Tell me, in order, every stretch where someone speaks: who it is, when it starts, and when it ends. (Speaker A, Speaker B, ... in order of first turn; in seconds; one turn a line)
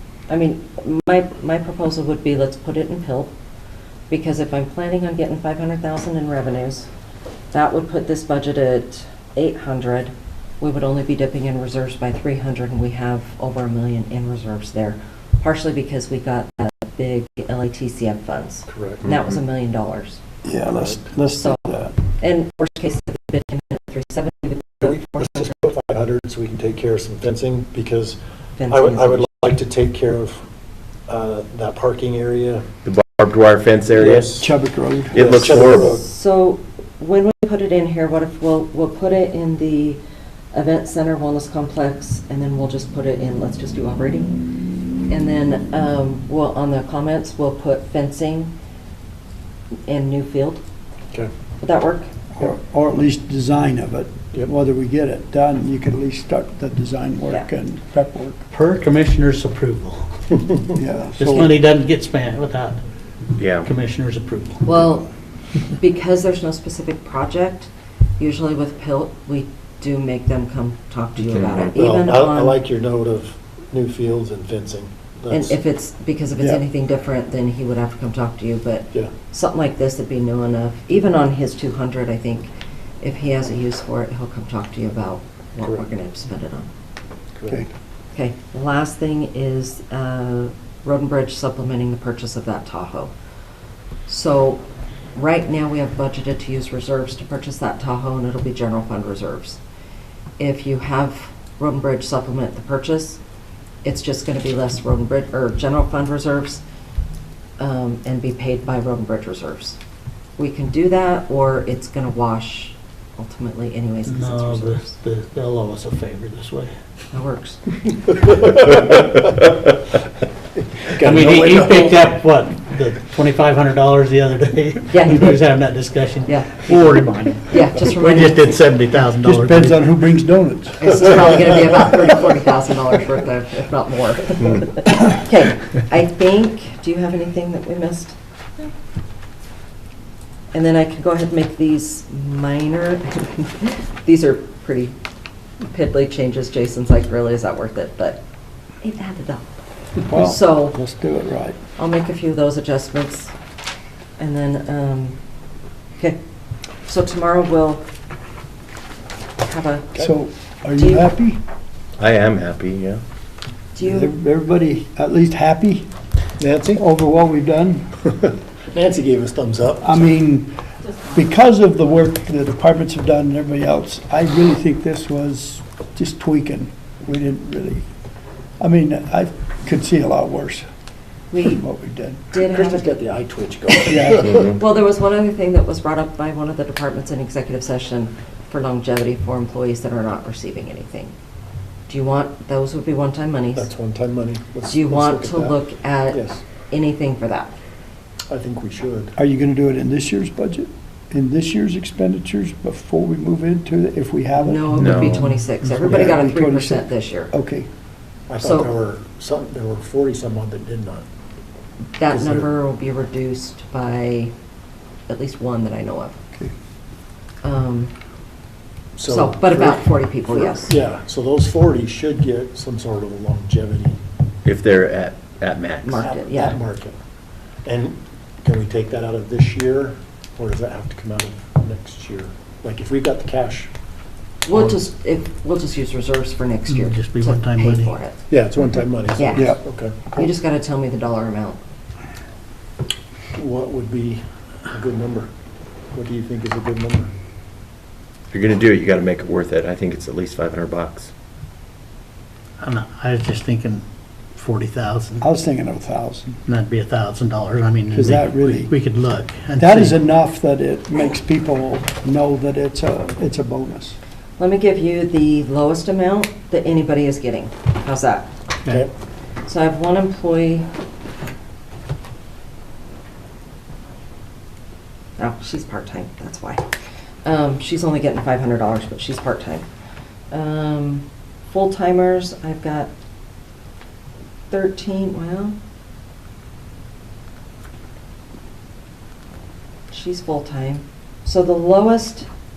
Speaker A: 0.3-3.3
Speaker A: 4.1-6.9
Speaker A: 7.5-20.2
Speaker B: 18.7-19.1
Speaker C: 20.4-22.0
Speaker B: 20.7-21.0
Speaker A: 21.4-25.4
Speaker B: 24.8-28.2
Speaker A: 28.6-29.3
Speaker B: 28.7-30.4
Speaker B: 31.1-32.7
Speaker D: 32.8-34.4
Speaker B: 34.0-34.5
Speaker C: 34.2-36.0
Speaker D: 35.1-36.0
Speaker B: 35.2-36.0
Speaker A: 35.7-40.0
Speaker A: 40.5-44.3
Speaker A: 45.1-48.5
Speaker A: 49.9-50.6
Speaker A: 51.6-52.1
Speaker C: 52.4-58.4
Speaker E: 58.5-60.1
Speaker C: 60.8-61.5
Speaker E: 61.2-62.8
Speaker D: 63.4-63.7
Speaker E: 63.6-64.7
Speaker A: 64.6-65.1
Speaker A: 65.6-72.6
Speaker D: 71.3-71.7
Speaker B: 71.8-75.6
Speaker A: 75.3-82.5
Speaker A: 83.0-86.7
Speaker B: 87.4-87.7
Speaker A: 88.1-93.1
Speaker A: 94.1-99.6
Speaker A: 100.4-103.2
Speaker A: 103.8-106.6
Speaker A: 107.6-109.8
Speaker A: 110.4-114.9
Speaker E: 114.1-116.7
Speaker A: 117.1-117.6
Speaker B: 118.4-119.2
Speaker B: 120.8-121.9
Speaker E: 121.0-129.8
Speaker A: 124.9-125.4
Speaker A: 126.3-128.6
Speaker C: 129.2-131.8
Speaker A: 130.8-138.2
Speaker A: 140.5-144.9
Speaker A: 145.6-148.2
Speaker A: 148.8-149.5
Speaker C: 150.1-151.6
Speaker A: 150.1-150.8
Speaker A: 151.8-153.3
Speaker A: 154.2-155.2
Speaker A: 156.8-157.8
Speaker A: 159.4-160.1
Speaker C: 159.9-161.4
Speaker A: 160.8-161.1
Speaker D: 162.0-163.0
Speaker A: 163.8-164.1
Speaker C: 163.8-165.9
Speaker B: 166.4-166.8
Speaker C: 166.7-168.0
Speaker B: 168.2-169.9
Speaker C: 169.8-170.6
Speaker C: 171.1-177.9
Speaker C: 178.6-180.7
Speaker A: 181.3-181.6
Speaker C: 181.4-182.3
Speaker A: 182.3-182.9
Speaker B: 182.4-184.5
Speaker A: 183.7-191.2
Speaker C: 183.9-184.3
Speaker A: 191.9-193.7
Speaker B: 193.6-195.6
Speaker A: 194.7-197.6
Speaker B: 196.1-196.4
Speaker B: 198.3-199.2
Speaker C: 199.2-205.3
Speaker A: 204.4-207.3
Speaker D: 204.7-205.4
Speaker E: 205.6-206.1
Speaker C: 205.8-207.7
Speaker B: 208.3-211.1
Speaker A: 208.4-208.7
Speaker A: 212.0-214.3
Speaker B: 212.1-212.5
Speaker A: 215.1-216.2
Speaker A: 217.4-217.9
Speaker B: 219.0-224.0
Speaker A: 219.1-220.8
Speaker D: 224.4-226.0
Speaker A: 225.8-226.6
Speaker B: 225.9-227.0
Speaker B: 227.7-233.7
Speaker A: 234.5-238.2
Speaker E: 234.5-234.8
Speaker E: 236.7-237.9
Speaker B: 238.3-239.9
Speaker A: 239.2-241.6
Speaker C: 239.3-240.3
Speaker B: 243.3-245.3
Speaker B: 245.9-247.1
Speaker D: 248.3-251.1
Speaker E: 252.6-255.3
Speaker C: 255.2-256.4
Speaker E: 256.5-260.0
Speaker C: 257.9-258.7
Speaker C: 259.6-264.0
Speaker A: 264.4-268.3
Speaker A: 269.5-270.7
Speaker A: 275.2-276.7
Speaker A: 277.2-279.7
Speaker A: 280.3-282.9
Speaker A: 284.5-285.6
Speaker A: 289.9-292.3